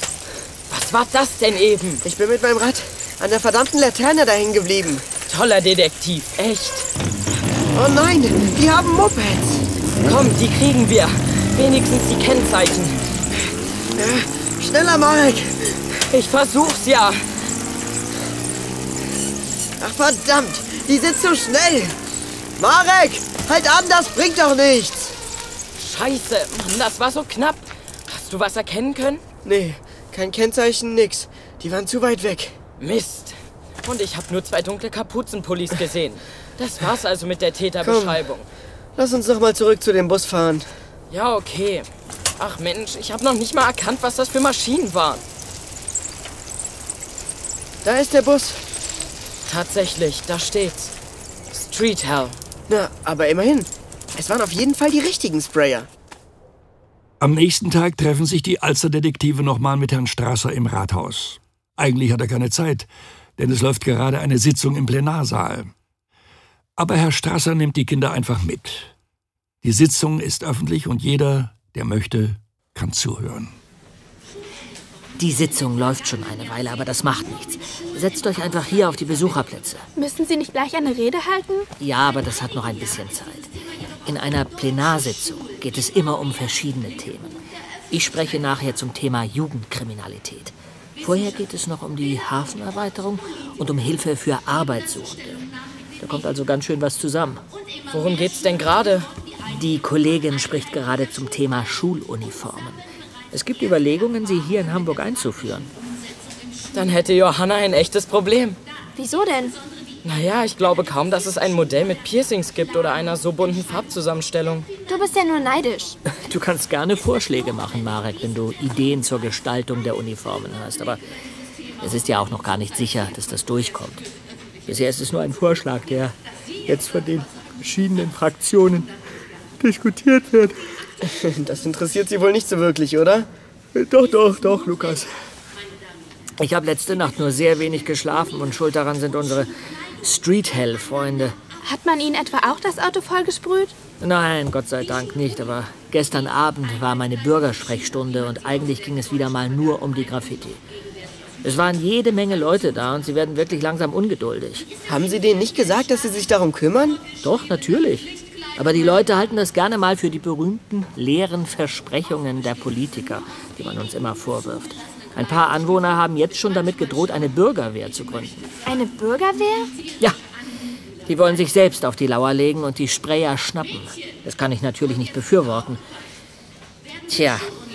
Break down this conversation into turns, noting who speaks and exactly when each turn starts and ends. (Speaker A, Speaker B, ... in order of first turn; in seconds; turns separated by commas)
Speaker A: 0.7-2.0, Speaker B: 2.0-5.0, Speaker A: 5.3-6.9, Speaker B: 7.7-9.7, Speaker A: 10.0-13.1, Speaker B: 13.9-15.8, Speaker A: 16.1-17.2, Speaker B: 19.8-21.9, Speaker B: 22.6-25.1, Speaker A: 25.8-29.2, Speaker B: 29.4-32.6, Speaker A: 32.8-38.5, Speaker B: 37.8-38.2, Speaker B: 39.0-40.7, Speaker A: 41.1-45.2, Speaker B: 47.8-48.6, Speaker A: 49.4-50.9, Speaker A: 51.5-52.4, Speaker B: 52.7-55.9, Speaker C: 57.2-65.7, Speaker C: 66.8-68.9, Speaker C: 69.6-73.5, Speaker D: 75.2-79.8, Speaker E: 80.0-81.7, Speaker D: 81.8-83.5, Speaker D: 84.0-87.4, Speaker D: 87.9-95.5, Speaker D: 96.0-97.4, Speaker A: 97.9-99.1, Speaker D: 99.5-105.7, Speaker A: 106.7-108.6, Speaker F: 109.0-109.6, Speaker A: 110.0-114.7, Speaker F: 114.9-116.0, Speaker D: 116.1-121.0, Speaker D: 121.8-124.0, Speaker D: 124.7-126.1, Speaker D: 126.7-128.9, Speaker D: 129.6-130.6, Speaker B: 131.0-133.3, Speaker D: 133.7-135.1, Speaker D: 136.4-139.5, Speaker D: 140.0-141.3, Speaker E: 141.6-143.8, Speaker D: 144.0-150.6, Speaker D: 151.4-154.7, Speaker B: 154.9-157.0, Speaker D: 157.2-168.5, Speaker F: 168.6-169.8, Speaker D: 171.1-175.8, Speaker D: 177.1-177.4